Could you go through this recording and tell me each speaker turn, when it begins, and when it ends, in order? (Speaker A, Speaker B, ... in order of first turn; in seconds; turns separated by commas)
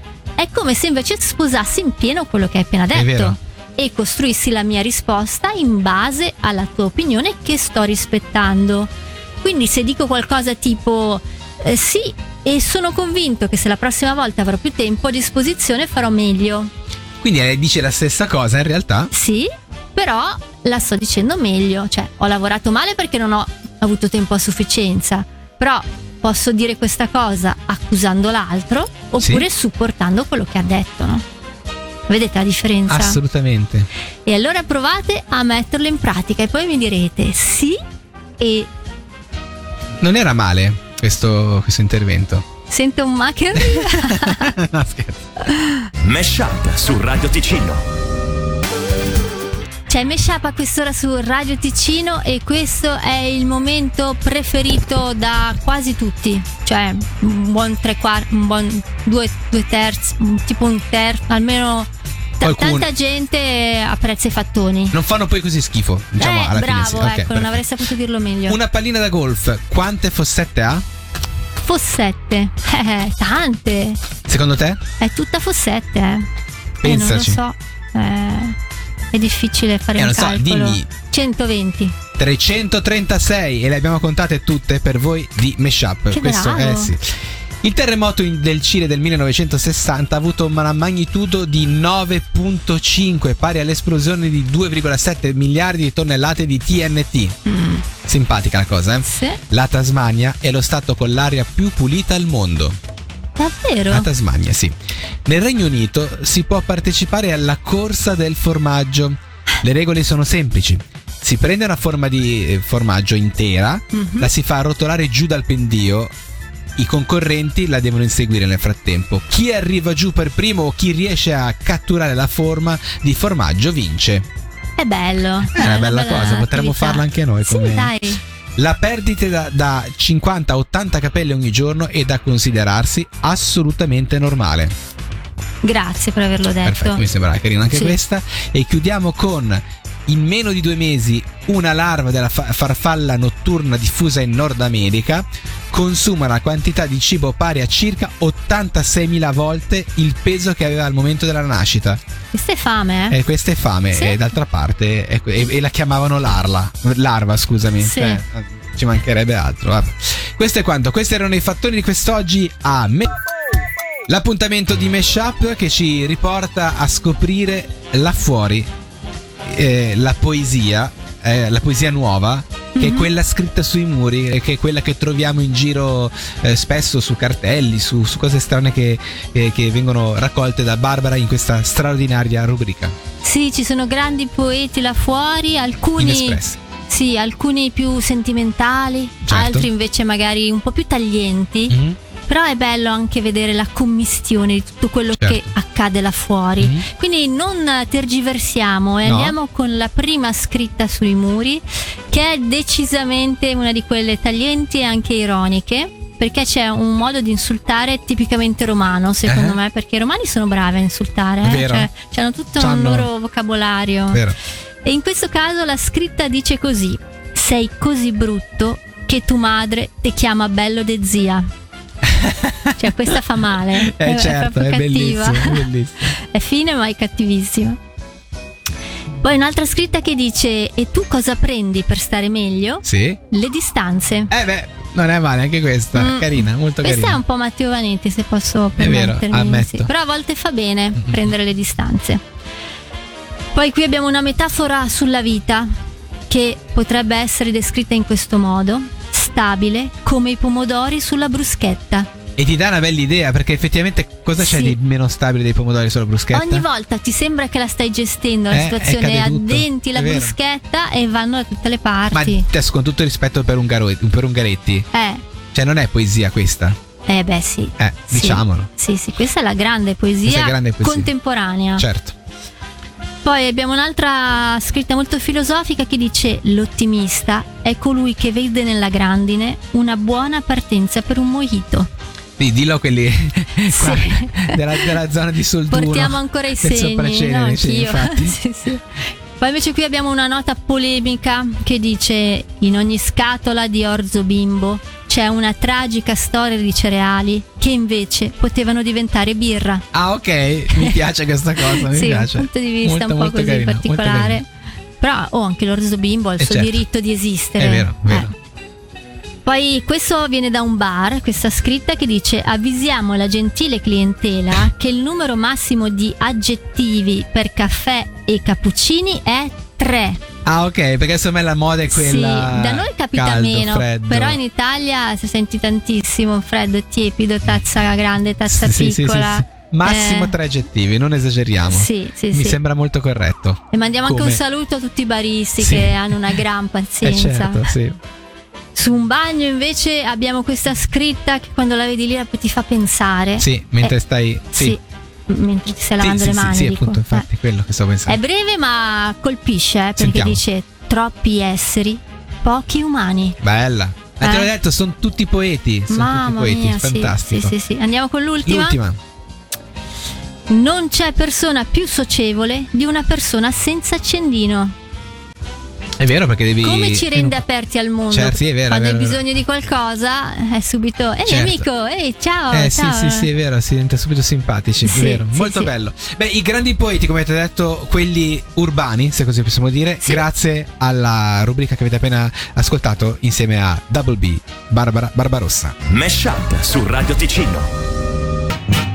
Speaker A: 0.4-16.7, Speaker B: 2.9-3.4, Speaker B: 17.2-19.1, Speaker A: 19.1-31.2, Speaker B: 29.2-29.5, Speaker A: 32.1-33.2, Speaker B: 32.9-33.9, Speaker A: 34.2-37.8, Speaker A: 38.4-38.7, Speaker B: 40.0-42.4, Speaker A: 42.7-44.5, Speaker B: 43.5-45.4, Speaker A: 45.4-45.9, Speaker C: 46.0-47.8, Speaker A: 49.9-65.0, Speaker B: 62.4-62.9, Speaker B: 64.9-67.6, Speaker A: 66.2-68.6, Speaker B: 68.5-70.8, Speaker A: 71.6-74.0, Speaker B: 74.3-74.8, Speaker A: 75.0-76.3, Speaker B: 76.8-77.4, Speaker A: 76.8-78.5, Speaker A: 79.1-81.9, Speaker B: 80.0-80.9, Speaker B: 82.2-97.3, Speaker A: 86.1-86.9, Speaker A: 97.5-97.8, Speaker B: 98.0-102.8, Speaker A: 99.0-99.4, Speaker A: 103.4-104.1, Speaker B: 103.9-104.7, Speaker B: 105.2-116.1, Speaker A: 113.9-114.3, Speaker B: 116.8-124.2, Speaker A: 124.8-128.2, Speaker B: 125.5-127.9, Speaker B: 128.6-134.7, Speaker A: 135.6-137.0, Speaker B: 136.6-152.0, Speaker A: 137.7-138.0, Speaker A: 152.3-153.2, Speaker B: 153.1-163.2, Speaker A: 153.9-154.2, Speaker A: 157.8-158.2, Speaker B: 164.1-168.7, Speaker B: 169.4-182.9, Speaker A: 172.8-173.1, Speaker A: 183.2-214.2, Speaker B: 186.0-186.6, Speaker B: 189.2-189.7, Speaker B: 191.7-192.0, Speaker B: 195.2-195.5, Speaker B: 196.6-196.8, Speaker B: 199.0-199.3, Speaker B: 209.2-209.6, Speaker B: 211.4-211.9, Speaker B: 212.6-213.1, Speaker B: 214.1-214.3, Speaker A: 214.8-221.4, Speaker B: 222.0-223.2, Speaker A: 222.8-227.8, Speaker B: 223.8-226.1, Speaker A: 229.2-234.3, Speaker B: 232.8-233.2, Speaker B: 234.3-237.2, Speaker A: 235.9-242.2, Speaker B: 238.8-239.9, Speaker B: 240.9-241.2, Speaker A: 243.5-245.7, Speaker A: 246.3-252.1, Speaker B: 252.3-256.7, Speaker A: 254.4-254.8, Speaker A: 256.3-262.4, Speaker B: 258.5-260.4, Speaker B: 262.1-264.9, Speaker A: 264.9-265.2, Speaker B: 265.5-266.8, Speaker A: 267.1-271.9, Speaker B: 267.8-268.7, Speaker B: 270.2-271.1, Speaker B: 271.8-272.1, Speaker A: 273.2-281.9, Speaker B: 282.4-288.4, Speaker A: 283.7-284.9, Speaker A: 285.7-299.8, Speaker B: 299.9-304.4, Speaker A: 300.7-301.0, Speaker A: 301.6-304.5, Speaker A: 305.0-308.3, Speaker B: 306.4-306.8, Speaker B: 307.6-308.3, Speaker A: 309.4-320.2, Speaker B: 320.4-324.4, Speaker A: 321.9-330.3, Speaker B: 328.4-334.4, Speaker A: 331.7-332.6, Speaker A: 333.7-337.7, Speaker B: 335.6-336.4, Speaker B: 337.0-338.0, Speaker A: 338.7-343.9, Speaker B: 343.4-344.8, Speaker A: 344.5-347.3, Speaker B: 346.0-348.2, Speaker A: 348.1-353.4, Speaker B: 350.0-350.4, Speaker B: 353.4-357.5, Speaker A: 354.2-354.5, Speaker A: 355.9-358.8, Speaker B: 358.4-359.0, Speaker A: 360.5-364.7, Speaker B: 366.0-367.4, Speaker A: 366.6-373.3, Speaker B: 368.1-369.2, Speaker B: 371.2-371.6, Speaker B: 372.5-385.8, Speaker A: 374.8-375.7, Speaker C: 385.9-387.7